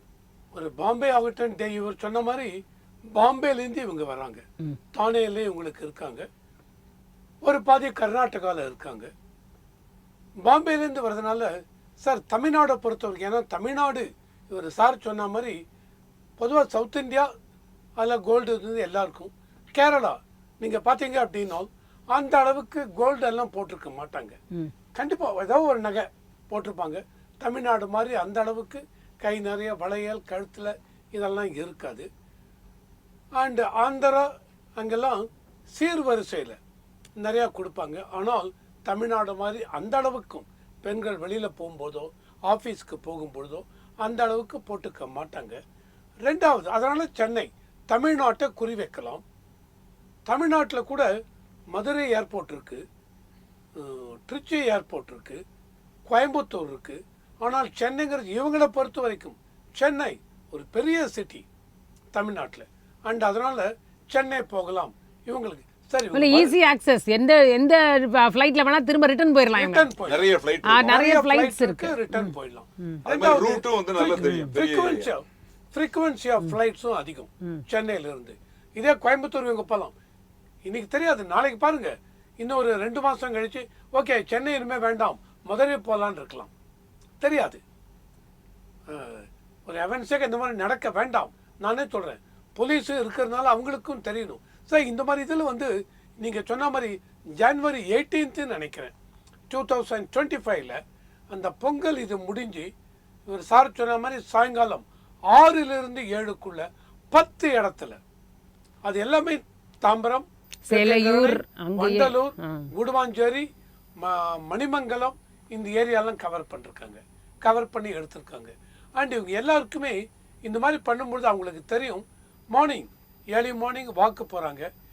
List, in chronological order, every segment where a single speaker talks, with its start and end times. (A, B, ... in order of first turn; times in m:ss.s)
0:00.5-0:02.6 A
0:03.1-0:06.3 A
0:07.4-0:09.1 A
0:10.4-0:15.6 A
0:16.4-0:17.3 A
0:18.0-0:24.4 A
0:24.9-0:32.1 A
0:33.4-0:36.6 A
0:37.2-0:45.6 A
0:46.2-0:49.2 A
0:50.3-0:51.1 A
0:51.7-0:52.8 A
0:53.8-0:55.4 A
0:56.1-1:01.4 A
1:02.1-1:06.6 A
1:06.1-1:09.9 B
1:09.5-1:10.2 A
1:10.0-1:11.0 C
1:10.6-1:12.3 B
1:10.8-1:19.9 A
1:13.0-1:15.1 C
1:14.1-1:14.5 B
1:20.6-1:26.5 A
1:27.2-1:27.6 A
1:28.9-1:38.9 A
1:39.5-1:40.8 A
1:41.3-1:42.7 A
1:43.3-1:48.0 A
1:48.8-1:53.5 A
1:50.7-1:52.7 B
1:54.0-2:04.7 A